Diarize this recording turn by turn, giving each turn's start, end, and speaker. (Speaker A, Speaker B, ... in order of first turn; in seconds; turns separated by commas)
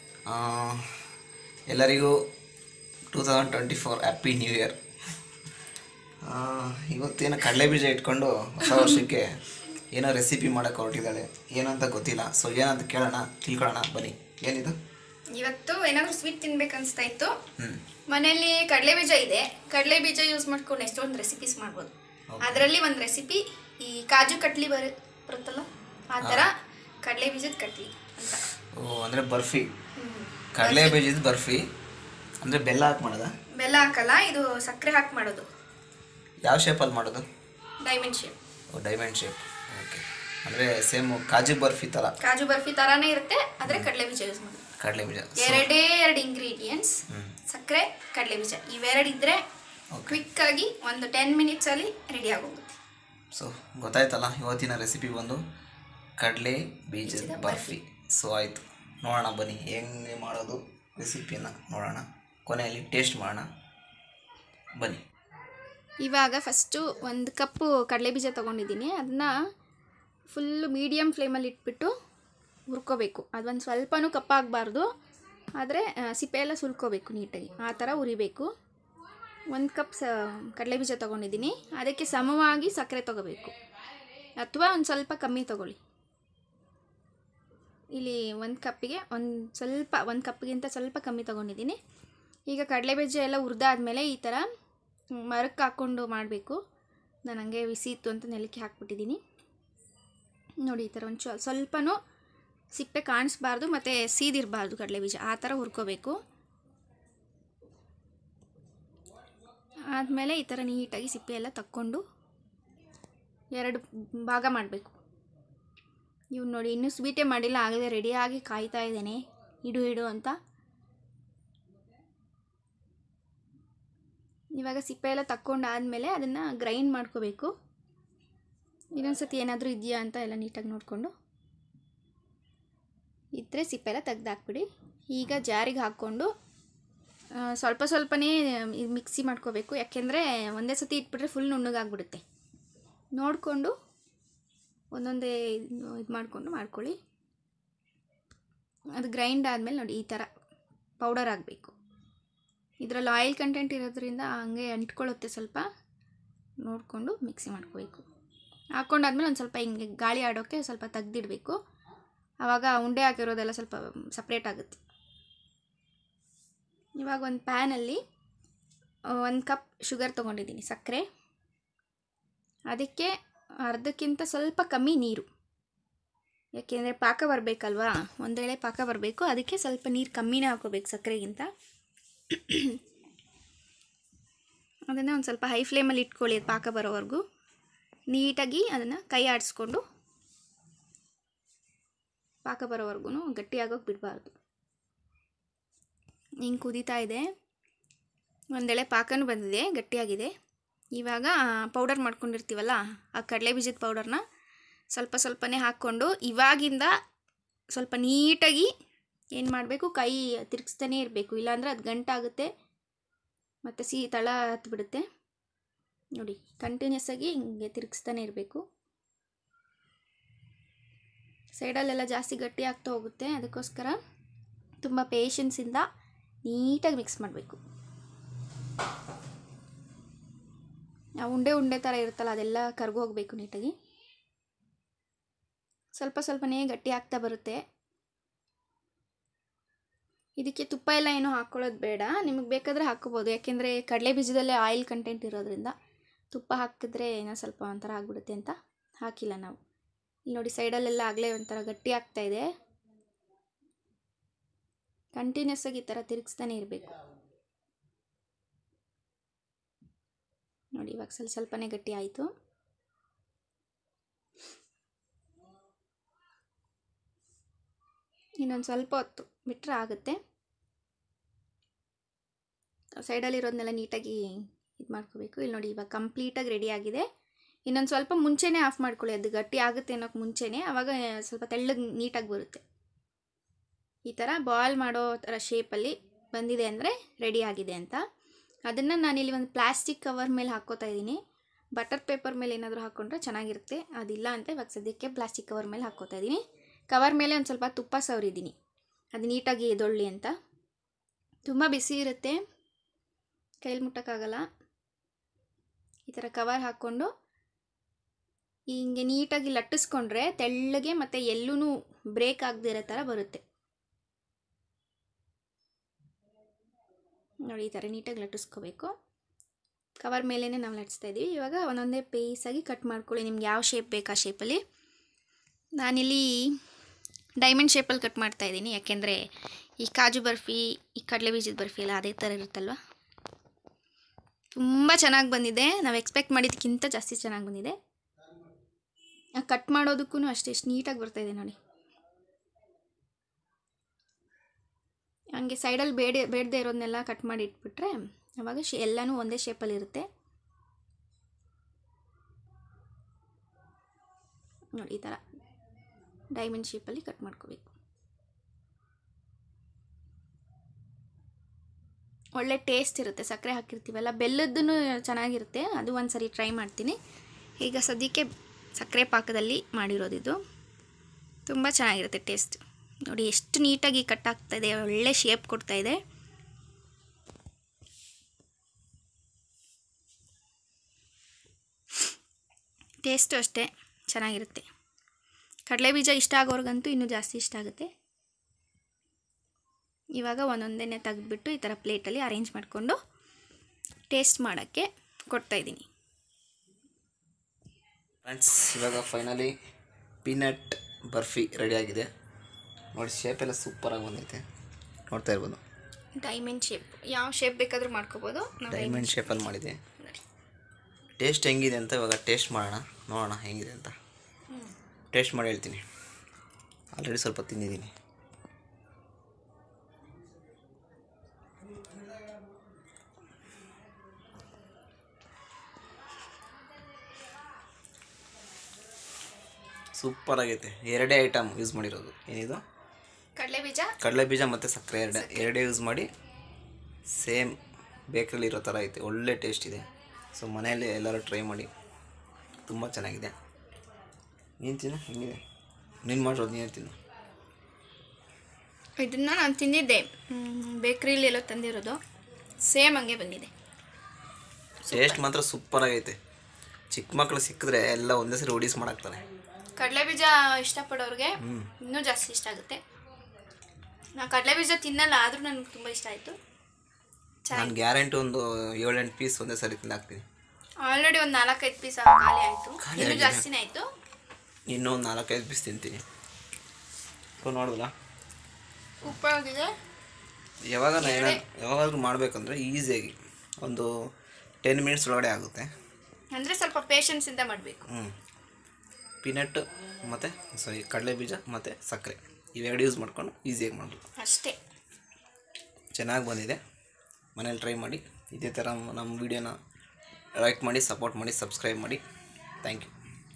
Speaker A: 0.3-1.0, Speaker A: 1.7-2.2, Speaker A: 3.1-4.8, Speaker A: 6.2-14.8, Speaker B: 8.6-9.0, Speaker B: 15.3-17.4, Speaker A: 17.6-17.8, Speaker B: 18.1-28.5, Speaker A: 22.3-22.7, Speaker A: 26.2-26.5, Speaker A: 28.7-29.8, Speaker B: 30.0-31.0, Speaker A: 30.6-31.6, Speaker A: 32.4-33.3, Speaker B: 33.6-35.5, Speaker A: 36.4-37.3, Speaker B: 37.8-38.4, Speaker A: 38.7-42.1, Speaker B: 42.2-44.6, Speaker A: 44.8-45.7, Speaker B: 45.4-49.4, Speaker A: 47.1-47.4, Speaker A: 49.9-50.2, Speaker B: 50.1-52.8, Speaker A: 53.3-55.4, Speaker A: 56.2-63.5, Speaker B: 57.0-57.7, Speaker A: 64.8-65.0, Speaker B: 66.0-69.3, Speaker B: 70.3-71.9, Speaker B: 72.7-74.9, Speaker B: 75.6-78.5, Speaker B: 79.5-83.6, Speaker B: 84.4-85.8, Speaker B: 88.0-91.8, Speaker B: 92.5-94.5, Speaker B: 95.2-96.6, Speaker B: 97.3-99.2, Speaker B: 100.7-102.0, Speaker B: 102.7-106.2, Speaker B: 109.9-112.0, Speaker B: 113.5-115.0, Speaker B: 116.3-120.4, Speaker B: 124.6-127.5, Speaker B: 128.9-131.1, Speaker B: 133.4-136.3, Speaker B: 137.4-142.2, Speaker B: 143.2-143.7, Speaker B: 144.9-146.9, Speaker B: 149.0-150.3, Speaker B: 151.0-151.8, Speaker B: 152.8-155.7, Speaker B: 156.6-158.1, Speaker B: 158.8-161.6, Speaker B: 162.4-164.8, Speaker B: 167.0-168.0, Speaker B: 169.2-171.1, Speaker B: 172.7-175.3, Speaker B: 176.6-181.5, Speaker B: 182.3-182.8, Speaker B: 184.9-187.2, Speaker B: 188.1-189.8, Speaker B: 192.4-194.3, Speaker B: 196.4-197.3, Speaker B: 198.6-200.3, Speaker B: 200.9-204.2, Speaker B: 204.9-206.9, Speaker B: 207.7-208.7, Speaker B: 209.3-212.5, Speaker B: 213.7-215.0, Speaker B: 216.2-218.6, Speaker B: 221.5-224.0, Speaker B: 224.8-225.9, Speaker B: 226.5-227.6, Speaker B: 231.2-233.7, Speaker B: 236.0-237.6, Speaker B: 240.4-245.8, Speaker B: 246.3-249.6, Speaker B: 250.3-252.5, Speaker B: 255.2-256.9, Speaker B: 260.8-262.3, Speaker B: 268.4-270.2, Speaker B: 273.0-277.1, Speaker B: 277.7-282.6, Speaker B: 284.1-288.0, Speaker B: 288.7-291.2, Speaker B: 291.8-298.6, Speaker B: 299.1-300.3, Speaker B: 301.5-302.4, Speaker B: 303.6-304.4, Speaker B: 306.1-307.1, Speaker B: 308.7-313.4, Speaker B: 317.5-318.9, Speaker B: 320.0-324.6, Speaker B: 325.8-326.6, Speaker B: 327.4-329.3, Speaker B: 329.8-332.8, Speaker B: 334.6-337.8, Speaker B: 339.4-341.6, Speaker B: 345.4-350.1, Speaker B: 354.8-355.2, Speaker B: 356.3-357.8, Speaker B: 362.4-367.0, Speaker B: 367.6-370.4, Speaker B: 371.5-376.0, Speaker B: 383.0-384.7, Speaker B: 385.7-387.9, Speaker B: 390.1-393.0, Speaker B: 394.1-395.9, Speaker A: 398.2-399.5, Speaker A: 400.2-402.1, Speaker A: 402.9-404.4, Speaker A: 405.1-405.6, Speaker B: 406.2-409.4, Speaker A: 408.7-409.8, Speaker A: 411.2-413.9, Speaker A: 415.1-415.8, Speaker A: 416.9-417.9, Speaker A: 430.0-432.6, Speaker B: 433.4-433.9, Speaker A: 434.0-436.1, Speaker B: 435.1-435.5, Speaker A: 437.1-437.6, Speaker A: 438.1-441.7, Speaker A: 442.6-443.4, Speaker A: 444.6-445.4, Speaker A: 446.0-446.9, Speaker B: 449.0-452.0, Speaker B: 452.6-453.5, Speaker B: 454.9-455.2, Speaker A: 454.9-456.2, Speaker A: 456.9-459.2, Speaker B: 459.8-462.8, Speaker A: 461.4-461.7, Speaker B: 464.2-466.4, Speaker B: 467.5-467.8, Speaker A: 467.5-470.2, Speaker B: 470.8-473.9, Speaker A: 472.8-473.4, Speaker A: 474.7-476.0, Speaker A: 477.4-477.9, Speaker B: 479.0-479.7, Speaker A: 480.7-483.9, Speaker B: 481.0-481.4, Speaker A: 484.6-485.7, Speaker B: 486.3-487.8, Speaker A: 487.9-488.1, Speaker A: 489.2-494.0, Speaker B: 494.2-494.6, Speaker A: 495.9-496.6, Speaker A: 497.4-499.6, Speaker A: 500.4-502.0, Speaker A: 502.6-502.9